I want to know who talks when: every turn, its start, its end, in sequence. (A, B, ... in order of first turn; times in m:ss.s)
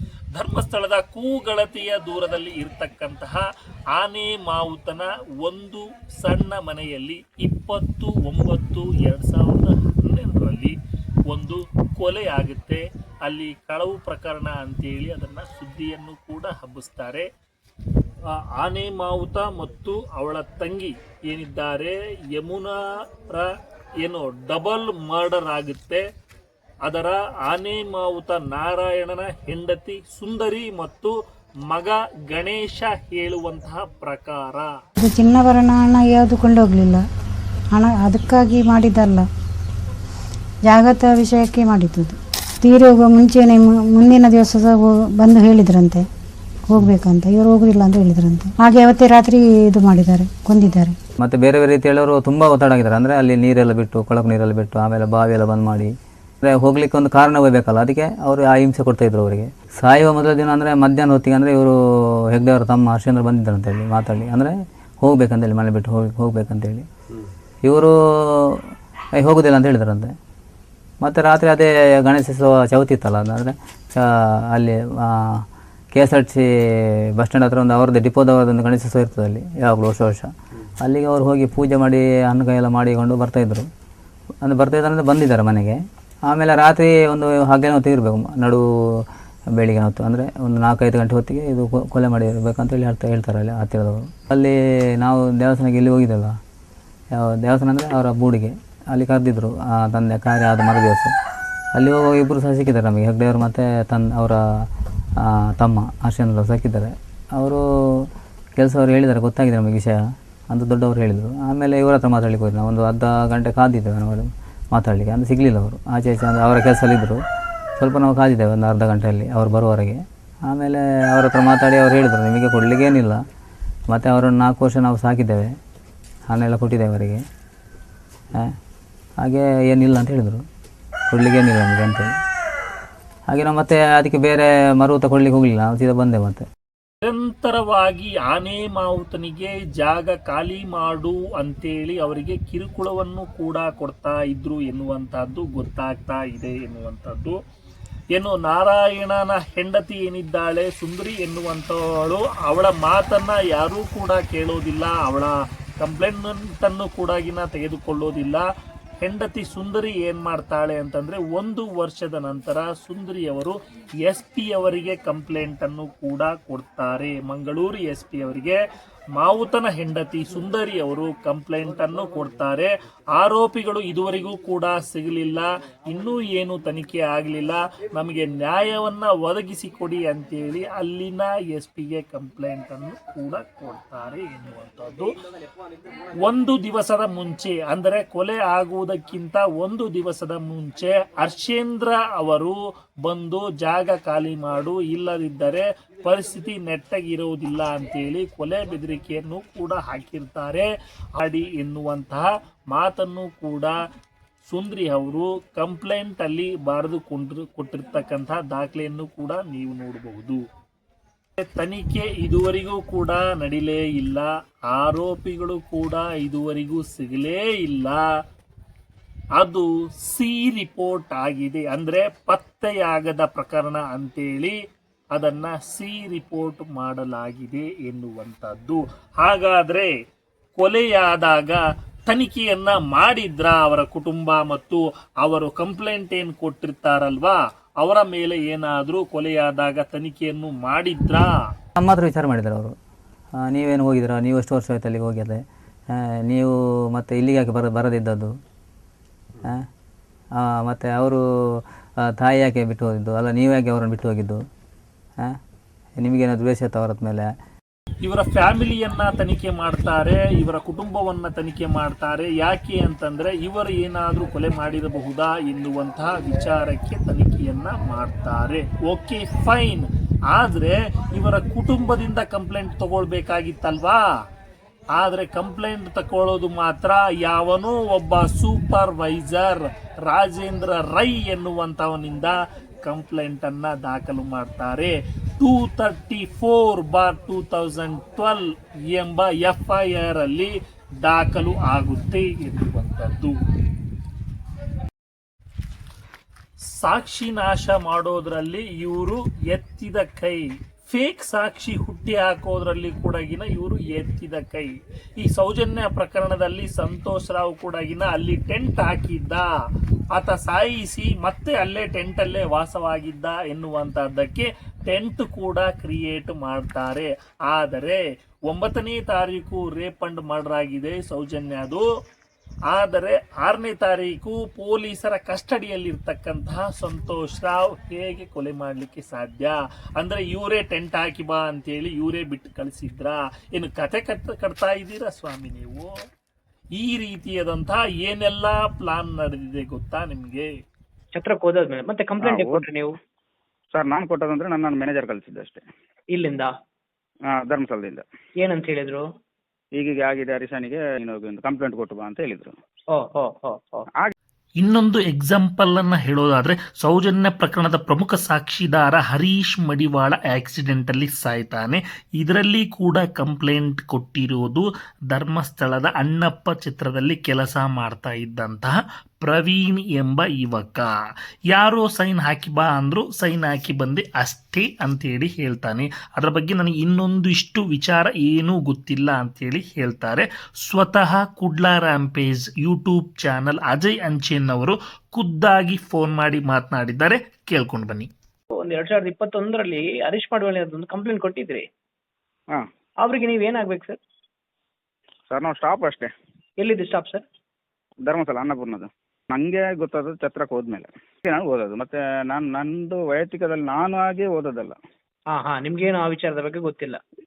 0:00.3-0:10.8 A
0:11.3-0:17.3 A
0:18.3-0:26.0 A
0:26.8-0:31.1 A
0:31.7-0:34.8 A
0:35.0-0:37.0 B
0:37.7-0:39.2 B
0:40.6-0:46.0 B
0:46.7-0:51.0 B
0:51.2-0:55.9 C
0:56.4-1:01.7 C
1:02.3-1:06.8 C
1:07.6-1:10.1 C
1:11.0-1:23.7 C
1:24.4-1:36.4 C
1:37.1-1:41.1 C
1:41.7-1:57.2 C
1:57.8-2:03.2 C
2:03.9-2:05.6 C
2:06.3-2:07.2 C
2:09.2-2:10.4 C
2:11.1-2:12.1 C
2:13.3-2:16.4 C
2:17.0-2:27.4 A
2:28.1-2:38.4 A
2:39.0-2:48.6 A
2:49.1-3:05.1 A
3:06.2-3:23.8 A
3:24.4-3:30.4 A
3:31.4-3:38.0 A
3:39.4-3:44.6 A
3:45.1-3:49.9 A
3:50.6-4:01.4 A
4:01.8-4:02.8 C
4:03.3-4:08.4 C
4:09.4-4:09.7 C
4:10.3-4:14.4 C
4:16.0-4:17.3 C
4:18.0-4:34.1 A
4:34.9-4:53.4 A
4:56.7-5:09.5 A
5:10.1-5:21.8 A
5:22.7-5:35.9 A
5:36.8-5:40.5 A
5:41.1-5:43.0 D
5:42.2-5:42.6 E
5:43.7-5:45.6 E
5:46.1-5:46.5 D
5:47.3-5:48.0 E
5:48.4-5:49.0 D
5:49.7-5:52.5 E
5:52.9-5:53.9 D
5:54.6-6:10.9 A
6:11.5-6:28.1 A
6:28.5-6:31.6 D
6:33.0-6:34.0 D
6:35.3-6:36.1 E
6:36.6-6:37.2 D
6:38.0-6:44.8 E
6:45.3-6:47.0 D